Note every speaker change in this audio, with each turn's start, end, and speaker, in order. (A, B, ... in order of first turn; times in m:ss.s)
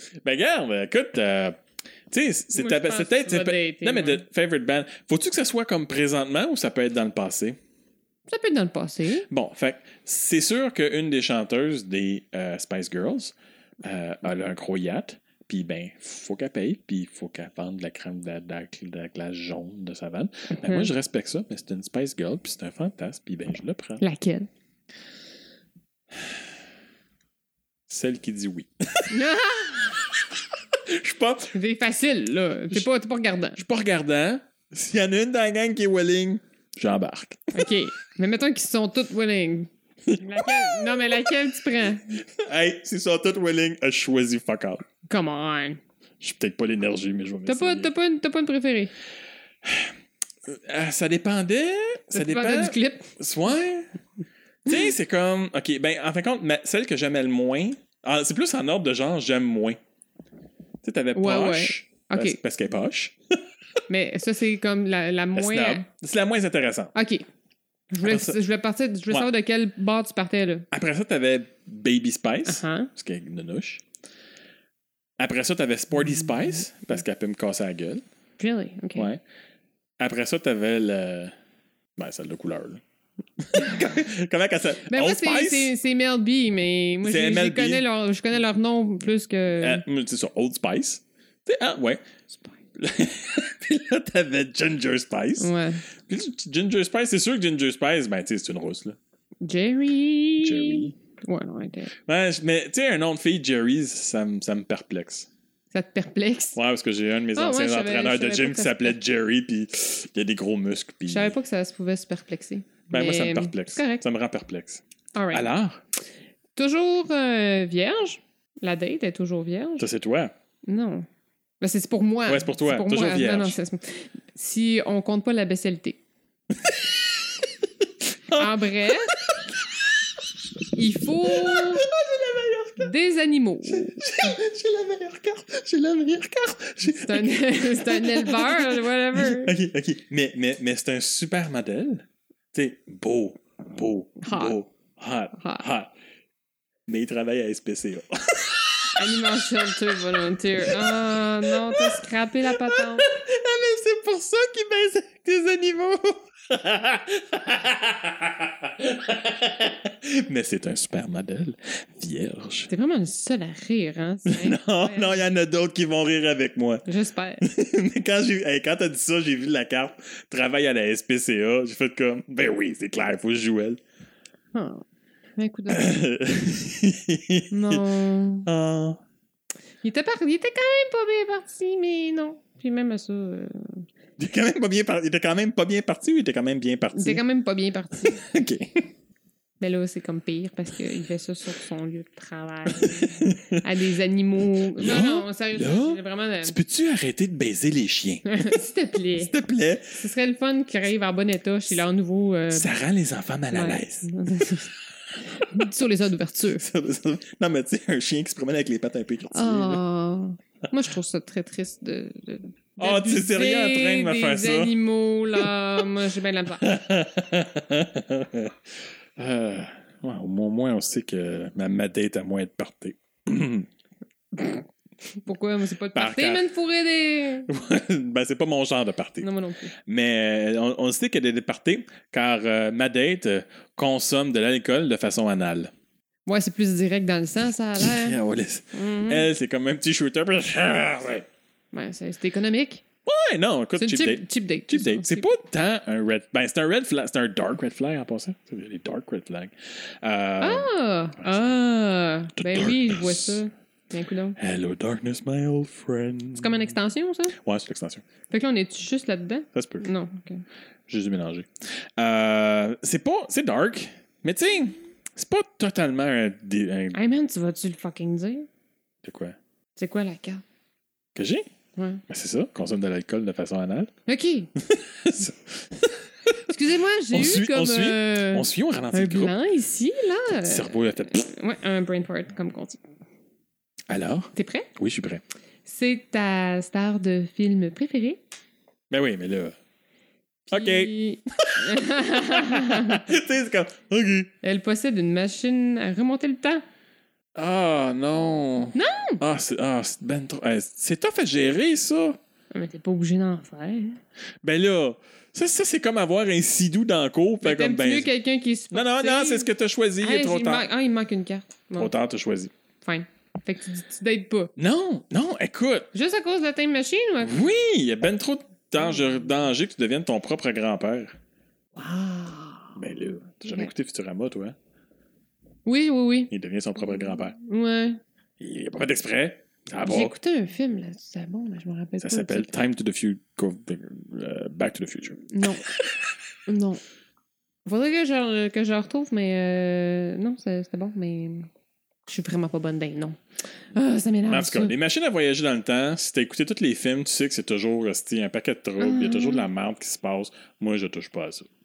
0:00.2-0:07.6 A
0:02.5-0:04.2 B
0:08.3-0:09.3 B
0:09.3-0:24.0 A
0:20.5-0:20.9 B
0:24.0-0:24.5 B
0:27.9-0:29.2 A
0:29.1-0:30.0 B
0:30.1-0:31.5 A
0:31.5-0:33.6 B
0:33.6-0:37.7 A
0:37.5-0:42.2 B
0:40.0-0:41.4 A
0:42.2-0:44.8 A
0:45.1-0:45.8 B
0:46.2-0:47.9 A
0:47.4-0:48.9 B
0:49.6-0:49.9 A
0:50.4-0:53.9 A
0:52.1-0:53.1 B
0:54.6-0:59.8 A
1:00.8-1:03.4 A
1:01.1-1:02.4 B
1:03.9-1:05.8 B
1:05.3-1:06.9 A
1:06.9-1:07.2 B
1:07.9-1:10.7 B
1:08.0-1:08.4 A
1:10.7-1:13.8 A
1:12.4-1:12.9 B
1:15.2-1:18.0 A
1:18.4-1:19.1 B
1:19.0-1:19.2 A
1:20.0-1:21.3 A
1:22.0-1:22.8 A
1:23.4-1:25.7 A
1:24.9-1:29.8 B
1:27.0-1:27.8 A
1:29.6-1:32.0 A
1:32.7-1:35.5 A
1:35.4-1:35.8 B
1:36.1-1:39.0 A
1:39.4-1:41.9 B
1:40.4-1:40.9 A
1:42.0-1:45.3 A
1:45.7-1:46.6 B
1:46.5-1:51.4 A
1:47.3-1:49.0 B
1:51.1-1:54.0 B
1:52.9-1:55.8 A
1:55.1-1:55.5 B
1:56.6-1:59.9 B
1:59.8-2:00.3 A
2:00.7-2:01.0 B
2:01.6-2:06.0 B
2:02.3-2:03.6 A
2:06.6-2:07.5 A
2:08.3-2:09.8 A
2:08.3-2:09.1 B
2:10.7-2:11.9 B
2:11.2-2:12.9 A
2:12.8-2:14.1 B
2:13.6-2:25.9 A
2:16.8-2:19.5 B
2:24.2-2:24.6 B
2:25.3-2:25.6 B
2:26.9-2:30.0 A
2:28.9-2:33.0 B
2:30.6-2:42.7 A
2:42.7-2:45.2 B
2:44.3-2:46.8 A
2:46.8-2:47.4 B
2:47.4-2:53.8 A
2:54.5-2:54.8 B
2:55.4-2:56.0 B
2:55.7-2:57.9 A
2:57.5-2:58.5 B
2:58.4-2:59.0 A
2:59.8-3:03.8 B
3:04.2-3:07.2 A
3:06.9-3:08.2 B
3:08.0-3:08.9 A
3:09.6-3:16.6 B
3:12.7-3:13.6 A
3:14.7-3:18.5 A
3:18.2-3:19.3 B
3:19.1-3:20.0 A
3:19.9-3:22.7 B
3:22.5-3:24.1 A
3:23.5-3:24.7 B
3:25.3-3:26.6 B
3:26.6-3:29.8 A
3:29.3-3:36.7 B
3:32.8-3:34.8 A
3:36.6-3:38.6 A
3:39.2-3:43.7 A
3:45.2-3:47.5 B
3:45.9-3:46.4 A
3:47.5-3:49.3 A
3:49.2-3:49.7 B
3:49.8-3:55.7 A
3:56.2-3:58.2 B
3:57.8-4:01.3 A
3:58.7-3:59.3 B
4:01.7-4:02.8 B
4:03.0-4:11.5 A
4:03.8-4:05.3 B
4:10.4-4:14.4 B
4:12.4-4:13.4 A
4:14.4-4:16.7 A
4:16.4-4:17.4 B
4:17.4-4:18.0 A
4:18.3-4:20.4 B
4:19.5-4:19.8 A
4:20.9-4:27.0 A
4:26.9-4:28.5 B
4:29.0-4:29.4 A
4:29.8-4:30.4 B
4:31.1-4:31.5 A
4:31.8-4:32.0 B
4:32.1-4:33.9 A
4:34.1-4:34.5 B
4:34.6-4:36.3 A
4:36.5-4:42.8 B
4:37.1-4:39.4 A
4:40.3-4:41.3 A
4:43.9-4:45.2 A
4:44.3-4:44.7 B
4:45.6-4:48.2 B
4:48.9-4:49.6 A
4:50.5-4:53.1 B
4:50.5-4:54.3 A
4:54.4-4:56.6 B
4:57.4-5:02.2 A
4:58.7-4:59.2 B
5:02.5-5:04.0 B
5:04.4-5:08.1 A
5:07.4-5:09.5 B
5:08.7-5:10.7 A
5:10.0-5:11.9 B
5:11.8-5:12.5 A
5:12.8-5:14.5 B
5:14.6-5:15.9 A
5:15.9-5:17.4 B
5:17.2-5:21.2 A
5:21.8-5:23.7 B
5:22.8-5:24.6 A
5:25.6-5:26.3 B
5:26.3-5:27.3 A
5:26.9-5:28.0 B
5:28.4-5:30.1 A
5:29.8-5:32.5 B
5:32.0-5:35.2 A
5:35.3-5:35.7 B
5:36.5-5:36.8 B
5:37.6-5:41.5 B
5:42.1-5:43.2 B
5:43.7-5:44.7 B
5:44.3-5:51.5 A
5:48.8-5:49.5 B